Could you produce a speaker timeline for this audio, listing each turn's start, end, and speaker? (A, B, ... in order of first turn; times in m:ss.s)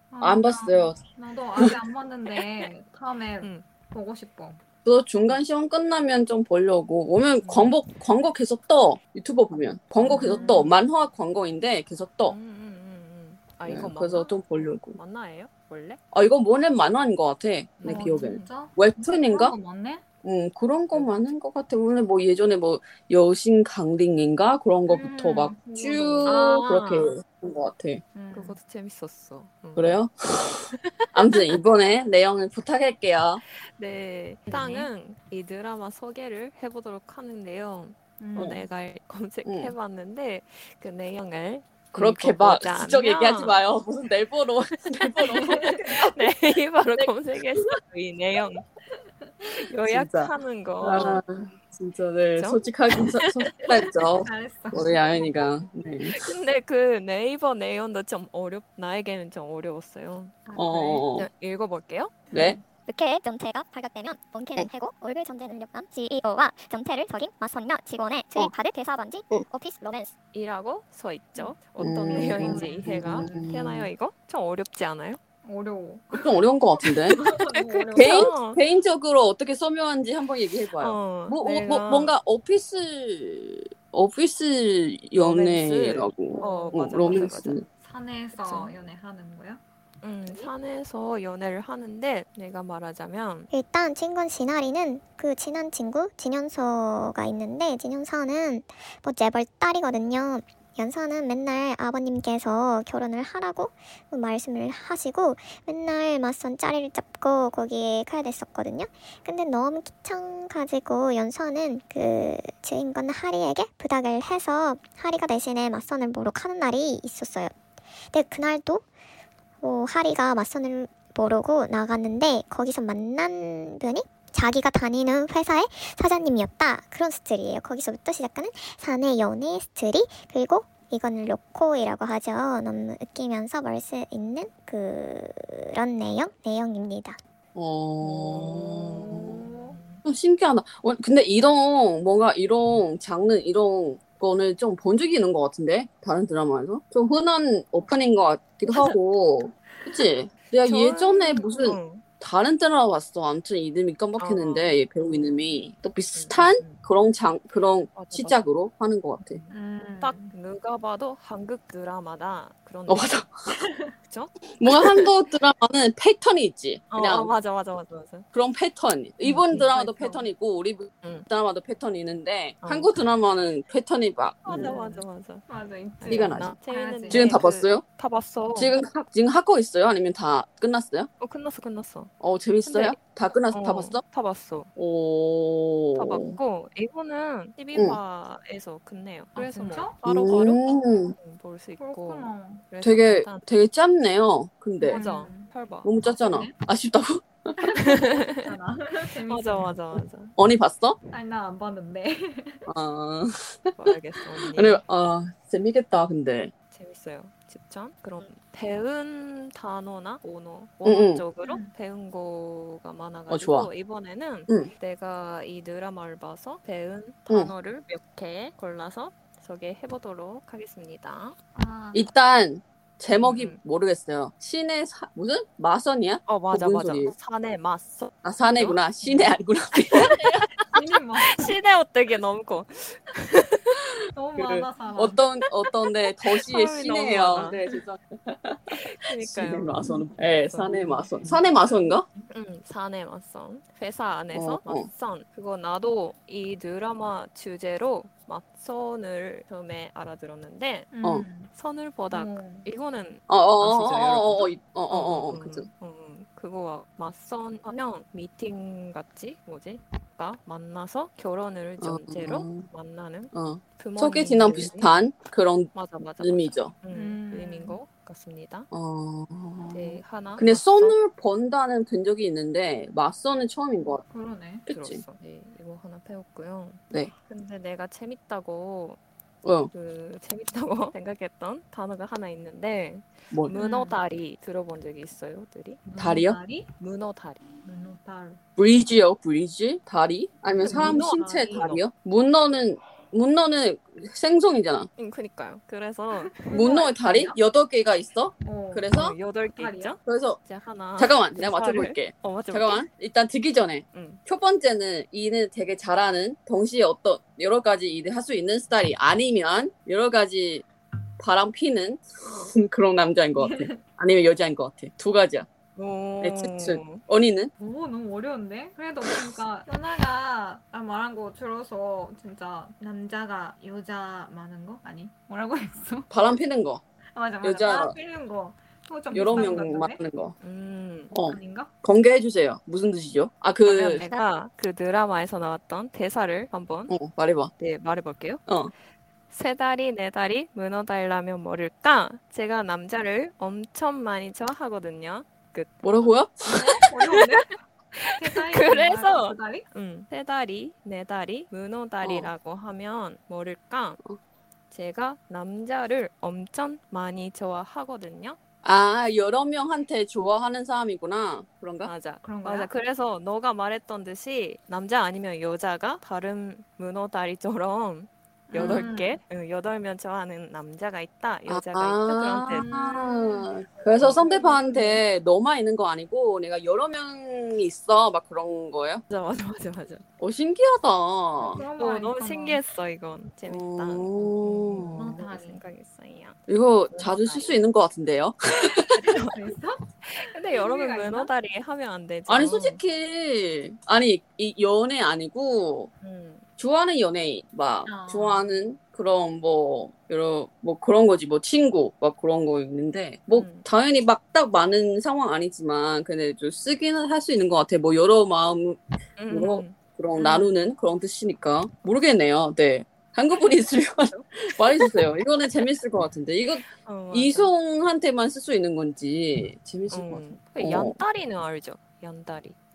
0:00.1-0:04.6 A
0:00.2-0:01.0 B
0:04.8-0:12.3 B
0:07.4-0:07.9 C
0:10.0-0:10.6 C
0:10.0-0:10.8 A
0:12.2-0:16.0 C
0:13.7-0:15.0 B
0:16.1-0:19.5 B
0:17.8-0:18.4 C
0:17.8-0:20.0 A
0:20.2-0:28.0 B
0:24.9-0:26.4 A
0:26.2-0:27.1 C
0:28.1-0:28.6 A
0:28.3-0:30.0 C
0:29.8-0:30.5 B
0:31.1-0:33.4 B
0:33.7-0:43.6 C
0:34.5-0:34.9 A
0:38.2-0:38.6 A
0:39.4-0:39.7 B
0:41.9-0:46.1 B
0:45.3-0:48.6 C
0:49.6-0:51.2 C
0:49.9-0:56.3 B
0:52.4-0:52.6 C
0:54.2-0:55.3 A
0:56.1-1:00.4 C
1:00.4-1:01.0 A
1:00.6-1:01.3 B
1:01.1-1:02.3 C
1:02.3-1:02.6 A
1:02.3-1:02.6 B
1:02.9-1:10.1 D
1:10.3-1:15.2 C
1:11.8-1:13.9 B
1:12.1-1:13.5 A
1:15.4-1:16.2 A
1:16.1-1:17.2 B
1:16.8-1:18.3 A
1:17.3-1:18.6 C
1:18.0-1:27.6 B
1:20.8-1:22.1 C
1:25.2-1:27.6 C
1:26.3-1:27.2 A
1:27.8-1:29.6 A
1:28.3-1:28.7 C
1:30.0-1:33.5 C
1:30.2-1:30.5 A
1:33.5-1:57.5 E
1:58.1-1:58.8 E
1:59.6-2:17.2 E
2:17.5-2:19.4 B
2:18.0-2:18.8 C
2:18.7-2:19.8 A
2:19.7-2:20.0 C
2:20.0-2:39.4 B
2:28.7-2:29.0 C
2:29.7-2:30.0 A
2:30.6-2:32.0 C
2:34.2-2:34.7 C
2:36.1-2:36.8 C
2:37.9-2:38.4 C
2:39.2-2:43.2 C
2:39.5-2:40.3 A
2:42.9-2:43.3 B
2:43.6-2:43.9 A
2:44.1-2:45.0 C
2:44.6-2:47.3 B
2:46.9-2:48.3 C
2:48.3-2:54.7 B
2:49.2-2:50.3 C
2:52.6-2:53.0 C
2:54.4-2:55.4 C
2:54.5-2:57.4 A
2:56.0-2:58.8 C
2:56.1-2:56.5 B
2:57.1-2:57.8 B
2:58.5-3:01.1 B
3:01.2-3:03.0 C
3:02.2-3:04.0 B
3:03.5-3:04.7 C
3:04.8-3:06.4 B
3:05.9-3:10.6 C
3:09.4-3:10.0 A
3:10.0-3:11.2 B
3:11.2-3:13.4 C
3:11.8-3:12.6 A
3:12.8-3:15.0 B
3:14.8-3:15.5 A
3:14.8-3:15.9 C
3:15.8-3:17.5 B
3:16.3-3:16.5 A
3:17.6-3:19.8 A
3:17.8-3:18.5 C
3:19.2-3:20.3 C
3:20.4-3:21.0 B
3:21.1-3:22.6 A
3:22.7-3:23.7 B
3:23.8-3:24.8 C
3:24.4-3:26.5 B
3:26.7-3:41.4 C
3:30.8-3:31.2 B
3:31.4-3:31.7 A
3:33.3-3:33.7 B
3:41.5-3:42.1 A
3:41.9-3:47.1 B
3:43.2-3:43.6 C
3:46.2-3:53.8 C
3:48.2-3:50.1 B
3:50.7-3:51.5 A
3:54.1-3:55.2 A
3:54.4-4:02.0 B
3:56.4-3:57.6 C
3:58.9-3:59.8 C
4:00.4-4:01.3 C
4:01.2-4:02.2 A
4:02.3-4:10.9 C
4:04.3-4:04.9 B
4:10.9-4:11.5 A
4:11.5-4:24.9 C
4:12.1-4:12.7 A
4:13.3-4:15.7 B
4:21.8-4:22.7 B
4:23.3-4:26.7 B
4:25.7-4:28.7 C
4:26.9-4:27.8 A
4:28.7-4:34.0 B
4:29.7-4:31.0 C
4:34.1-4:34.6 A
4:34.7-4:35.0 B
4:34.7-4:39.0 C
4:39.4-4:39.7 B
4:39.7-4:45.8 C
4:43.5-4:44.0 A
4:45.8-4:46.7 A
4:46.0-4:46.4 B
4:46.8-4:47.4 C
4:47.6-4:48.4 A
4:48.6-4:54.9 B
4:50.6-4:51.8 C
4:50.6-4:51.6 A
4:55.0-4:57.3 C
4:56.3-4:57.0 A
4:56.5-4:59.1 B
4:58.4-4:58.9 A
4:58.9-5:02.9 C
4:59.6-5:00.0 A
5:00.0-5:00.4 B
5:01.0-5:10.6 B
5:03.9-5:04.2 C
5:11.2-5:15.5 B
5:13.4-5:13.8 A
5:15.8-5:17.0 C
5:16.2-5:17.5 B
5:17.6-5:26.1 A
5:26.1-5:26.8 B
5:27.1-5:30.0 A
5:27.4-5:28.0 B
5:29.1-5:30.3 B
5:29.3-5:29.6 C
5:30.4-5:31.1 C
5:31.1-5:34.0 B
5:31.2-5:31.7 A
5:33.6-5:37.0 C
5:36.9-5:37.5 B
5:37.6-5:38.4 C
5:38.5-5:38.7 B
5:39.3-5:46.1 C
5:45.8-5:46.4 B
5:46.5-5:47.6 A
5:46.8-5:47.2 C
5:47.9-5:54.0 C
5:48.1-5:49.6 A
5:52.0-5:52.3 B
5:54.7-5:58.4 C
5:58.6-6:01.9 B
6:01.8-6:12.7 C
6:02.2-6:02.7 A
6:08.5-6:09.2 A
6:08.5-6:08.9 B
6:11.5-6:19.0 B
6:12.5-6:15.0 A
6:19.1-6:20.0 C
6:20.2-6:21.6 B
6:21.4-6:22.6 A
6:21.8-6:26.4 C
6:23.5-6:25.2 B
6:24.9-6:25.6 A
6:26.5-6:29.0 B
6:26.9-6:27.6 C
6:28.9-6:29.3 C
6:29.3-6:29.8 A
6:30.0-6:32.8 C
6:30.5-6:31.3 A
6:32.3-6:35.9 B
6:36.0-6:36.4 C
6:36.6-7:01.0 B
6:37.8-6:38.6 A
6:43.3-6:43.6 C
6:49.2-6:50.5 C
6:56.8-6:57.5 C
6:59.9-7:02.6 C